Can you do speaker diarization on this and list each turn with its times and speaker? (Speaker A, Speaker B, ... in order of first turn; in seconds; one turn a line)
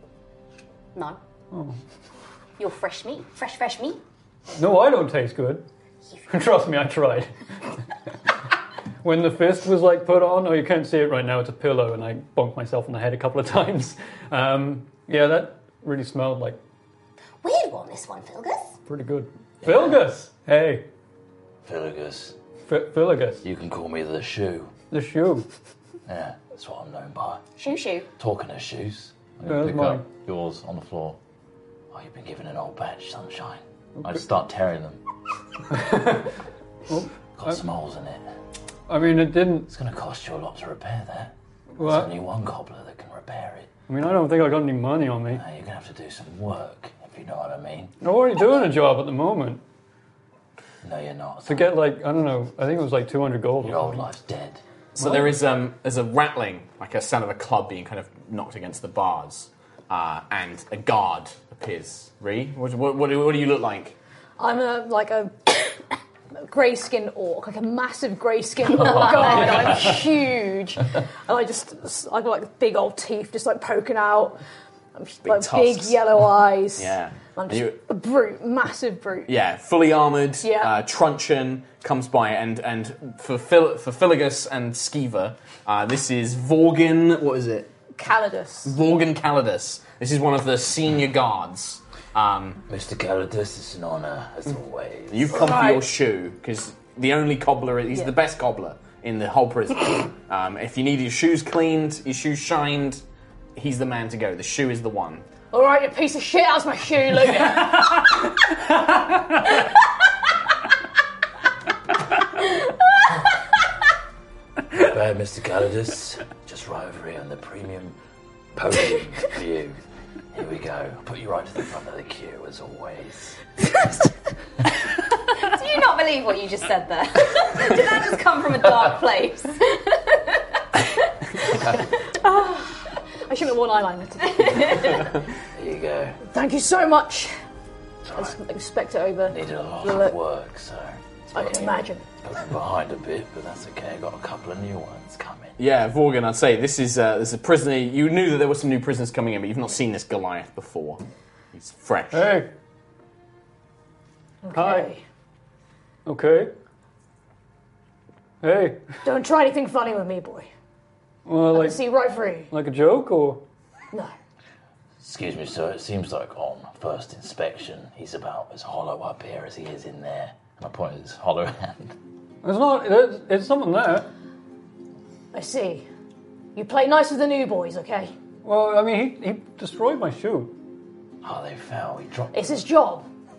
Speaker A: 1.5-1.8
Speaker B: 2.6-4.0
Speaker A: 4.6-5.6
Speaker A: 6.3-7.3
Speaker A: 9.0-16.6
Speaker B: 17.4-18.7
Speaker A: 18.9-20.9
Speaker C: 19.6-20.1
Speaker C: 21.6-22.3
Speaker A: 22.7-23.4
Speaker C: 23.4-24.7
Speaker A: 24.9-25.5
Speaker C: 26.1-27.4
Speaker B: 27.6-28.1
Speaker C: 28.2-31.2
Speaker A: 29.4-30.1
Speaker C: 31.9-35.0
Speaker A: 35.7-36.3
Speaker A: 36.9-37.6
Speaker C: 37.4-38.2
Speaker A: 38.9-39.7
Speaker C: 39.7-43.7
Speaker A: 41.7-42.1
Speaker A: 43.9-45.4
Speaker C: 45.3-47.9
Speaker A: 48.0-49.6
Speaker C: 50.8-51.8
Speaker A: 51.5-54.0
Speaker C: 53.6-54.6
Speaker A: 55.0-55.3
Speaker D: 55.0-64.0
Speaker E: 64.4-65.8
Speaker E: 66.4-74.4
Speaker B: 68.7-69.8
Speaker C: 68.8-69.9
Speaker E: 74.9-79.3
Speaker D: 75.2-76.2
Speaker D: 76.7-77.8
Speaker D: 79.2-87.7
Speaker E: 80.4-80.8
Speaker E: 88.0-88.8
Speaker D: 88.6-92.6
Speaker C: 92.7-95.6
Speaker D: 95.1-103.0
Speaker E: 95.3-95.9
Speaker D: 103.5-105.2
Speaker E: 105.5-108.2
Speaker A: 107.7-108.0
Speaker C: 114.7-117.9
Speaker C: 118.5-119.8
Speaker C: 120.3-123.4
Speaker B: 125.3-130.4
Speaker E: 132.2-135.1
Speaker B: 134.2-135.0
Speaker C: 135.5-136.2
Speaker E: 136.3-137.3
Speaker C: 138.1-138.3
Speaker E: 138.2-140.1
Speaker C: 139.3-145.6
Speaker E: 141.3-142.0
Speaker D: 145.6-151.0
Speaker D: 151.5-152.3
Speaker A: 152.1-152.5
Speaker E: 154.4-155.0
Speaker A: 154.5-154.9
Speaker A: 156.1-156.5
Speaker A: 158.4-158.8
Speaker E: 159.0-160.5
Speaker A: 161.2-161.8
Speaker E: 161.5-162.5
Speaker A: 162.5-163.4
Speaker C: 165.0-171.9
Speaker A: 172.4-174.1
Speaker E: 175.3-175.8
Speaker E: 176.5-178.1
Speaker A: 178.4-180.5
Speaker C: 181.2-182.3
Speaker E: 182.3-183.0